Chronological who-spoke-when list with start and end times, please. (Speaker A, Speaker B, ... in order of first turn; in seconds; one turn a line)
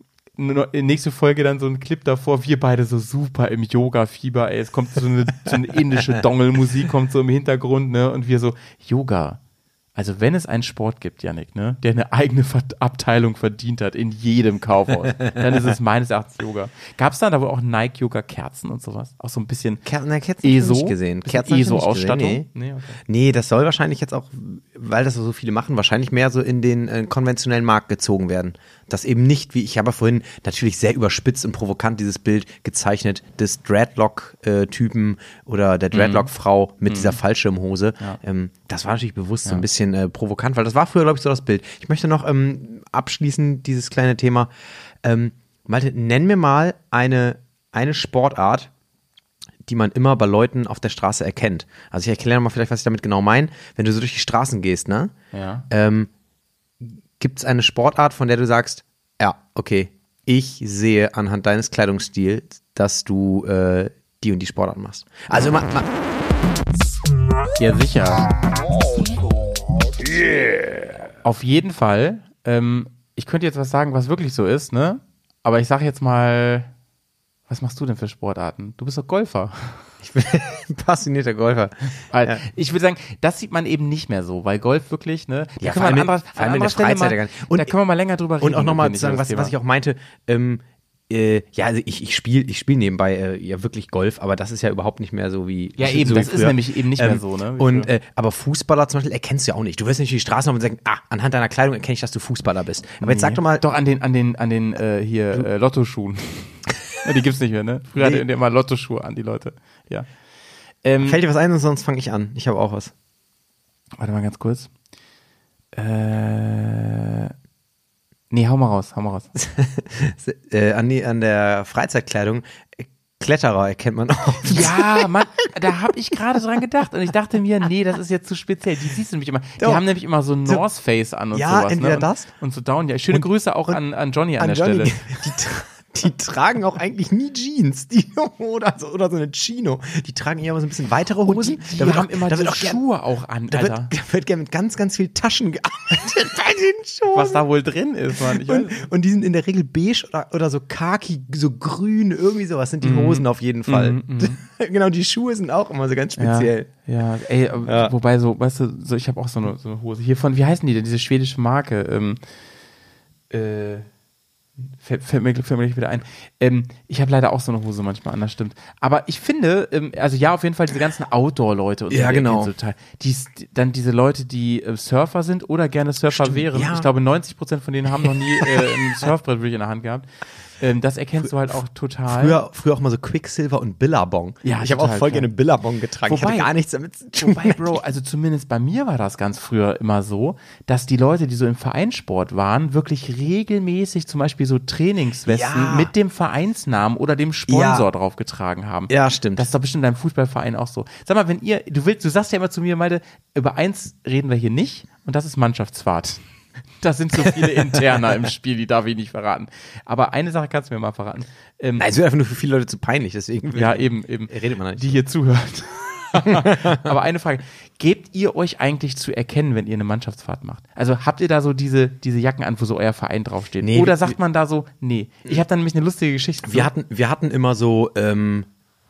Speaker A: 0.4-9.4
Speaker A: 9.9-19.8
Speaker B: 19.8-22.5
Speaker A: 20.4-23.0
Speaker B: 23.1-44.5
Speaker A: 35.9-36.3
Speaker A: 36.9-37.2
Speaker B: 45.0-48.7
Speaker B: 49.6-55.1
Speaker A: 55.3-55.6
Speaker B: 55.7-56.1
Speaker B: 56.8-65.9
Speaker A: 67.6-68.3
Speaker A: 71.2-76.7
Speaker A: 77.5-79.8
Speaker B: 80.0-82.4
Speaker A: 82.1-89.5
Speaker B: 85.6-87.7
Speaker B: 88.4-103.6
Speaker A: 95.8-97.9
Speaker A: 103.0-110.1
Speaker B: 108.0-108.2
Speaker A: 110.8-111.2
Speaker B: 111.0-112.9
Speaker A: 114.0-114.7
Speaker A: 115.7-117.3
Speaker A: 118.3-119.3
Speaker B: 119.4-125.1
Speaker A: 124.4-135.2
Speaker B: 131.3-132.3
Speaker B: 133.1-133.8
Speaker B: 134.4-142.8
Speaker A: 141.2-143.9
Speaker B: 143.5-147.4
Speaker A: 147.1-148.8
Speaker B: 148.1-156.7
Speaker A: 152.8-154.4
Speaker A: 156.2-162.2
Speaker B: 157.6-157.9
Speaker A: 163.3-163.9
Speaker A: 164.8-180.1
Speaker B: 171.9-172.5
Speaker B: 176.1-176.9
Speaker B: 178.0-178.8
Speaker A: 180.6-182.4
Speaker B: 182.1-187.8
Speaker A: 184.4-185.3
Speaker A: 186.1-186.5
Speaker A: 187.2-206.2
Speaker B: 195.3-195.9
Speaker B: 197.5-197.9
Speaker B: 198.9-199.5
Speaker A: 206.8-211.8
Speaker B: 211.8-215.0
Speaker A: 213.5-226.7
Speaker B: 216.2-216.9
Speaker B: 223.6-224.2
Speaker B: 226.4-228.5